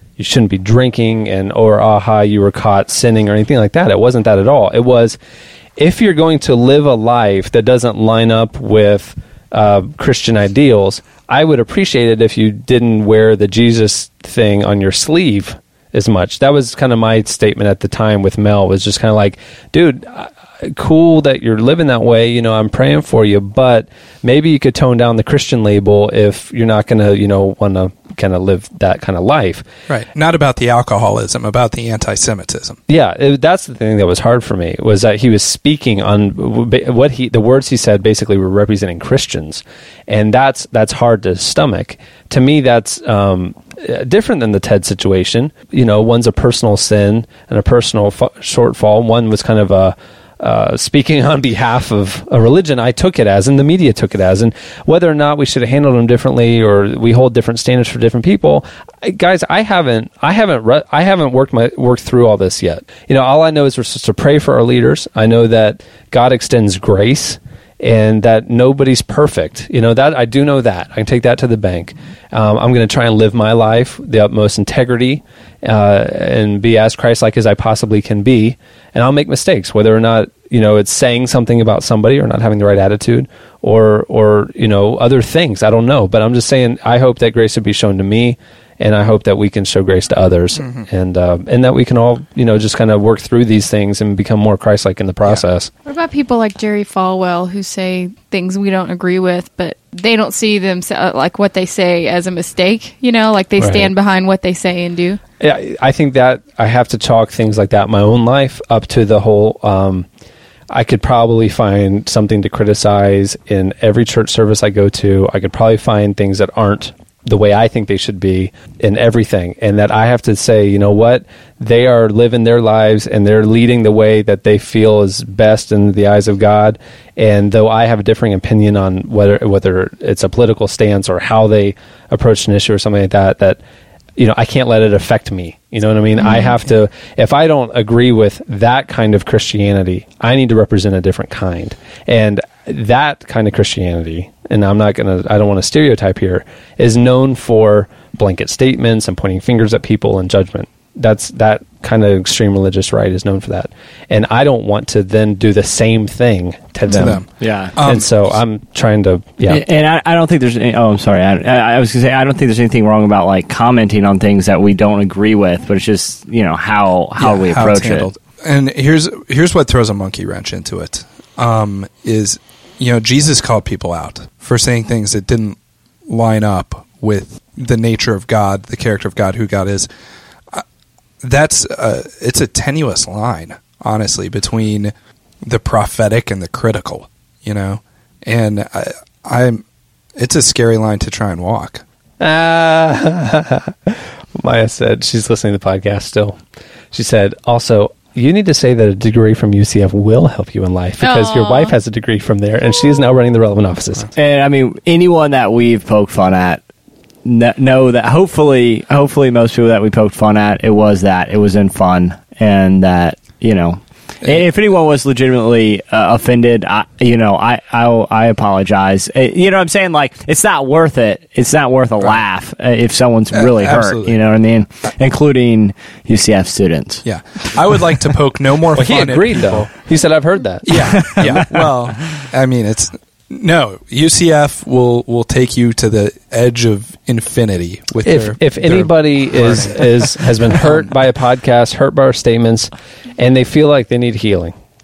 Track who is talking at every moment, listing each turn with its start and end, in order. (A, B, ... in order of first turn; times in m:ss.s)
0:00.2-0:05.2 A
0:05.8-0:29.6 A
0:29.9-0:32.8 B
0:32.9-1:35.7 A
1:30.6-1:30.9 B
1:35.8-1:45.2 C
1:43.6-1:43.9 A
1:45.4-1:50.1 A
1:50.7-2:13.6 A
2:14.2-2:37.2 A
2:16.2-2:16.6 C
2:36.9-2:38.4 B
2:37.4-2:37.8 D
2:37.8-2:39.6 A
2:39.5-2:48.1 D
2:47.2-2:59.9 B
3:01.2-3:04.9 B
3:05.4-3:09.6 B
3:10.2-3:11.8 B
3:12.2-3:16.4 A
3:16.9-3:24.1 A
3:21.0-3:21.7 C
3:24.2-3:26.6 D
3:27.2-3:47.0 D
3:34.2-3:34.5 B
3:43.3-3:44.2 B
3:47.0-3:49.7 B
3:48.8-3:50.7 A
3:50.6-4:00.9 B
3:50.7-3:52.3 D
3:58.0-4:04.5 A